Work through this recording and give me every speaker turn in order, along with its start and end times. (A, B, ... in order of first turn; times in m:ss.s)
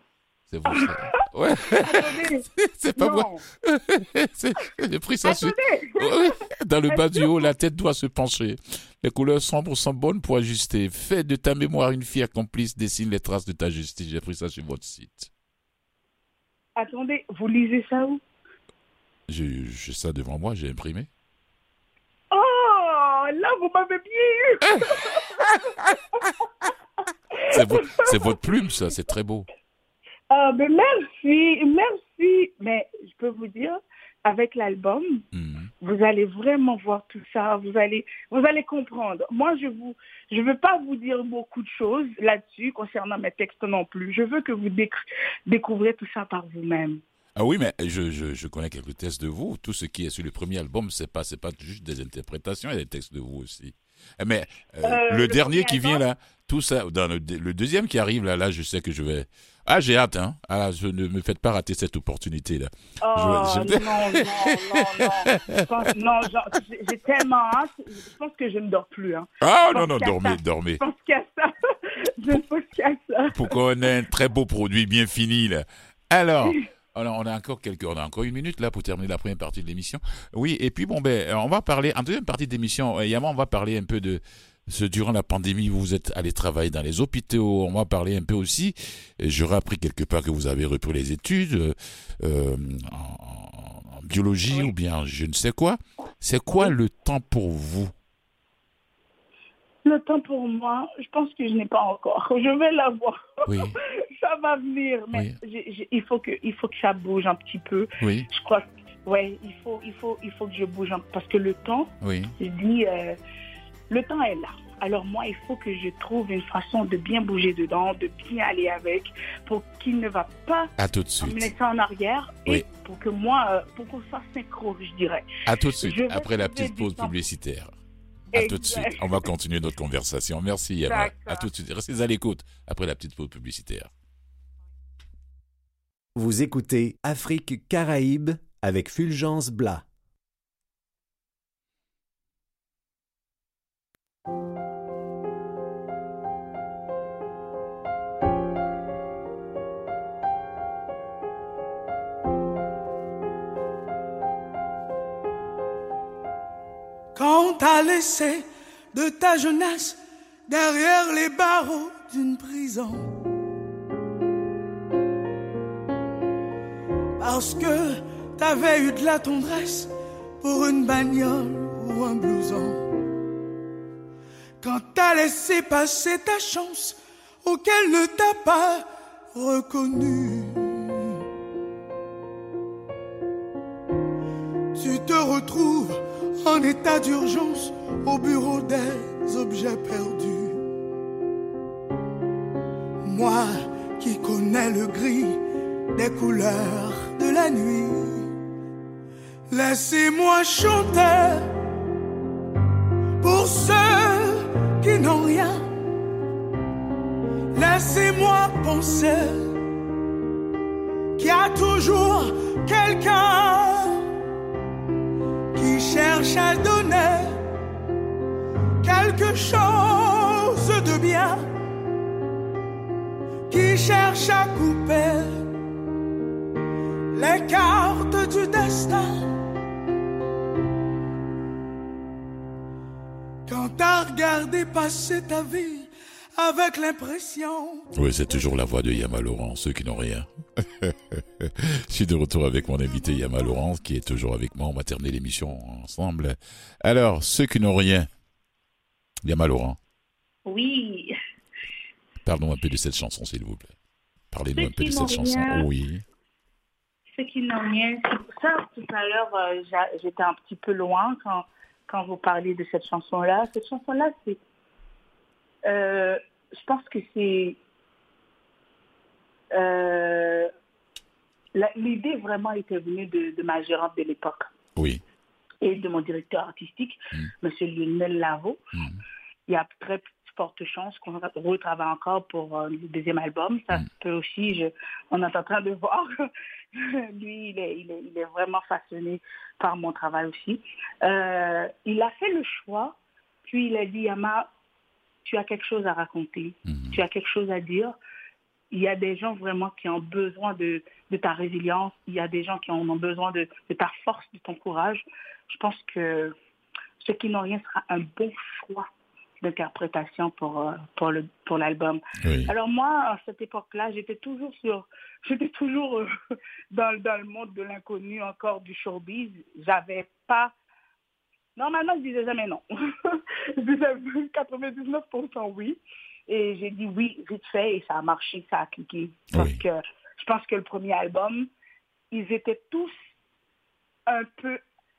0:00.5-0:15.3 A
0:00.7-0:00.9 B
0:01.8-0:03.4 B
0:05.2-0:06.4 B
0:06.9-0:07.4 B
0:16.8-0:18.2 B
0:19.3-0:21.1 A
0:22.3-0:26.3 B
0:25.4-0:25.9 A
0:27.4-0:28.3 B
0:27.5-0:29.5 A
0:30.3-0:35.2 B
0:35.3-0:35.7 A
0:35.8-0:47.0 B
0:47.4-1:05.6 A
0:54.8-0:56.0 B
1:03.0-1:13.5 B
1:09.4-1:10.8 A
1:13.3-1:37.9 A
1:39.8-1:53.2 B
1:43.5-1:43.8 A
1:48.0-1:48.3 A
1:52.0-1:52.3 A
1:53.9-2:05.3 B
2:00.8-2:01.5 A
2:05.4-2:07.7 A
2:05.8-2:07.2 B
2:08.3-2:13.9 A
2:08.3-2:09.2 B
2:10.9-2:11.5 B
2:16.2-2:19.8 C
2:37.1-2:43.2 D
2:47.2-2:49.9 D
2:50.4-2:52.8 D
2:54.6-3:01.2 D
3:04.7-3:10.6 D
3:13.0-3:15.4 D
3:15.9-3:18.3 D
3:19.5-3:21.5 D
3:23.2-3:25.6 D
3:27.5-3:29.5 D
3:31.2-3:34.0 D
3:35.5-3:37.4 D
3:38.8-3:41.5 D
3:43.5-3:45.4 D
3:47.1-3:49.2 D
3:53.5-3:57.9 D
3:57.9-4:08.1 A
4:09.2-4:09.8 A
4:10.4-4:11.1 B
4:12.2-4:13.7 A
4:14.3-4:16.0 A
4:14.6-4:15.7 B
4:17.2-4:24.4 B
4:25.6-4:27.6 B
4:29.5-4:30.5 B
4:31.5-4:34.5 B
4:34.8-4:35.0 A
4:35.6-4:38.6 B
4:38.7-4:39.0 A
4:39.5-4:46.1 B
4:46.7-4:54.5 B
4:55.2-4:58.0 B
4:56.7-4:57.0 A
4:58.7-5:06.3 B
5:07.0-5:08.9 B
5:09.4-5:16.1 B
5:12.2-5:12.5 A
5:16.7-5:20.5 B
5:21.6-5:31.5 B
5:29.3-5:29.6 A
5:32.1-5:32.9 B
5:34.1-5:34.6 B